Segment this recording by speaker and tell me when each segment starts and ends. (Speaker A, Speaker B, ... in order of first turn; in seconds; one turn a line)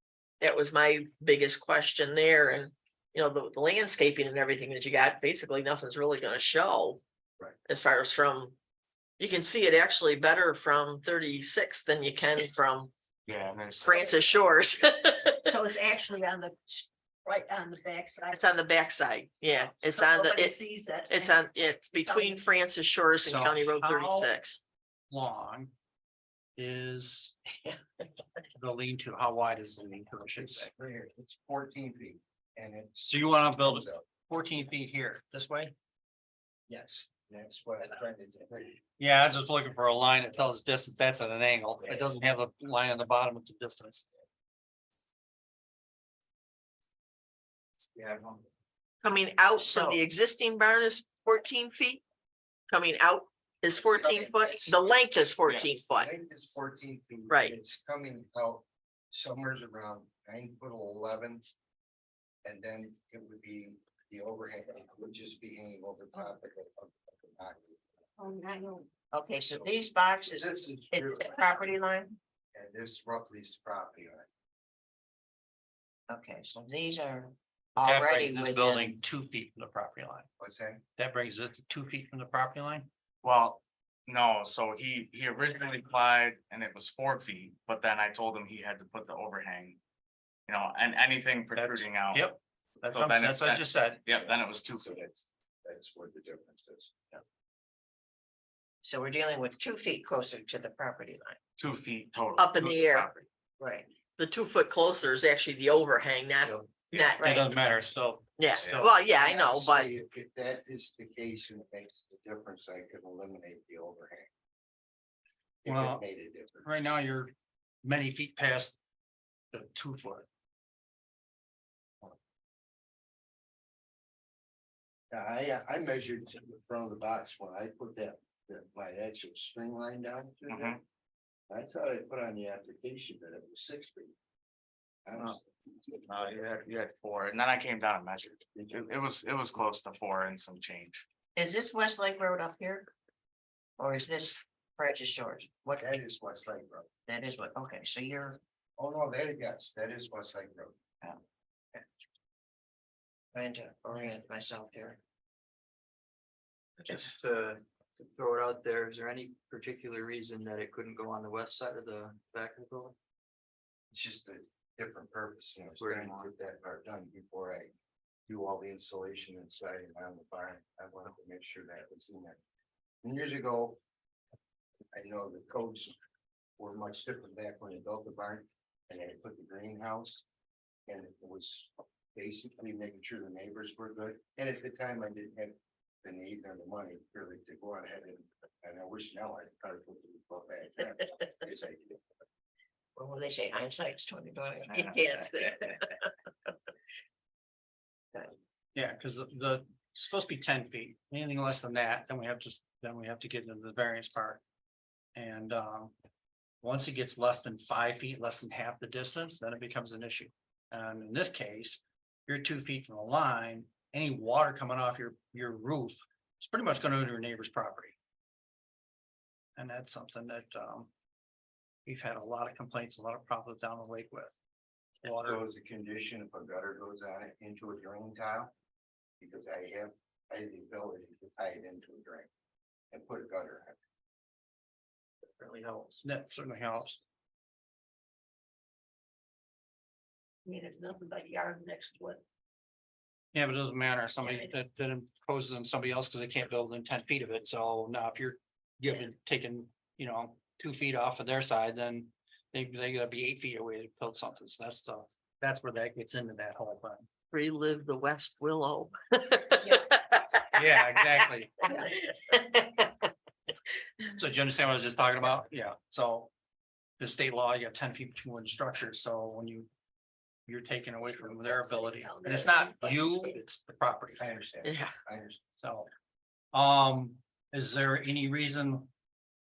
Speaker A: 0.4-7.0
Speaker A: 7.7-8.6
Speaker A: 9.2-12.9
Speaker B: 13.2-14.1
Speaker A: 13.8-15.5
Speaker C: 15.4-18.5
Speaker A: 18.3-20.6
Speaker C: 19.6-21.4
Speaker A: 21.1-24.6
Speaker C: 22.0-22.4
Speaker D: 23.2-24.3
Speaker D: 25.1-25.7
Speaker D: 26.6-27.4
Speaker D: 28.5-30.7
Speaker E: 30.4-34.0
Speaker D: 33.0-35.7
Speaker E: 36.7-38.8
Speaker D: 39.0-44.0
Speaker B: 47.9-48.4
Speaker A: 49.0-52.0
Speaker F: 49.6-50.0
Speaker A: 52.7-56.1
Speaker E: 53.8-54.8
Speaker E: 55.9-61.5
Speaker A: 57.3-57.5
Speaker E: 62.4-67.8
Speaker C: 68.2-68.9
Speaker F: 69.1-72.2
Speaker E: 70.2-71.3
Speaker E: 72.5-74.3
Speaker F: 76.1-79.0
Speaker D: 77.8-80.3
Speaker E: 80.4-80.8
Speaker D: 81.0-82.9
Speaker B: 83.2-89.8
Speaker B: 90.5-92.3
Speaker D: 91.5-94.0
Speaker B: 92.9-95.0
Speaker E: 94.2-97.2
Speaker F: 98.8-101.4
Speaker B: 101.6-103.2
Speaker A: 102.4-103.1
Speaker F: 103.6-103.9
Speaker A: 104.2-107.5
Speaker D: 107.2-108.9
Speaker A: 108.4-109.9
Speaker E: 109.1-114.3
Speaker E: 115.6-116.7
Speaker D: 115.7-116.0
Speaker D: 116.6-118.8
Speaker D: 119.5-120.2
Speaker E: 125.1-130.8
Speaker B: 130.5-130.8
Speaker E: 131.5-134.1
Speaker E: 135.1-136.0
Speaker B: 136.1-141.0
Speaker E: 138.5-138.9
Speaker F: 141.3-142.9
Speaker F: 143.8-145.8
Speaker E: 145.8-146.9
Speaker F: 147.1-148.4
Speaker E: 148.8-150.8
Speaker F: 153.3-155.0
Speaker F: 156.8-157.1
Speaker G: 156.9-162.9
Speaker E: 163.9-167.7
Speaker G: 165.7-166.3
Speaker E: 168.3-172.4
Speaker E: 173.0-173.8
Speaker E: 174.9-175.9
Speaker E: 176.6-180.2
Speaker E: 180.9-192.0
Speaker F: 192.9-196.1
Speaker D: 198.7-204.4
Speaker D: 205.2-205.9
Speaker D: 206.6-217.9
Speaker D: 219.6-220.9
Speaker D: 221.8-224.3
Speaker D: 225.0-225.4
Speaker E: 225.1-228.5
Speaker E: 229.2-232.3
Speaker E: 232.9-233.8
Speaker D: 236.0-237.0
Speaker C: 240.4-242.2
Speaker D: 243.3-257.1
Speaker A: 257.3-260.8
Speaker D: 260.5-261.7
Speaker A: 261.7-262.8
Speaker D: 264.2-266.3
Speaker D: 267.0-269.7
Speaker D: 270.5-274.2
Speaker C: 271.3-273.4
Speaker E: 274.2-275.4
Speaker A: 274.6-274.9
Speaker D: 275.6-275.9
Speaker D: 276.5-278.9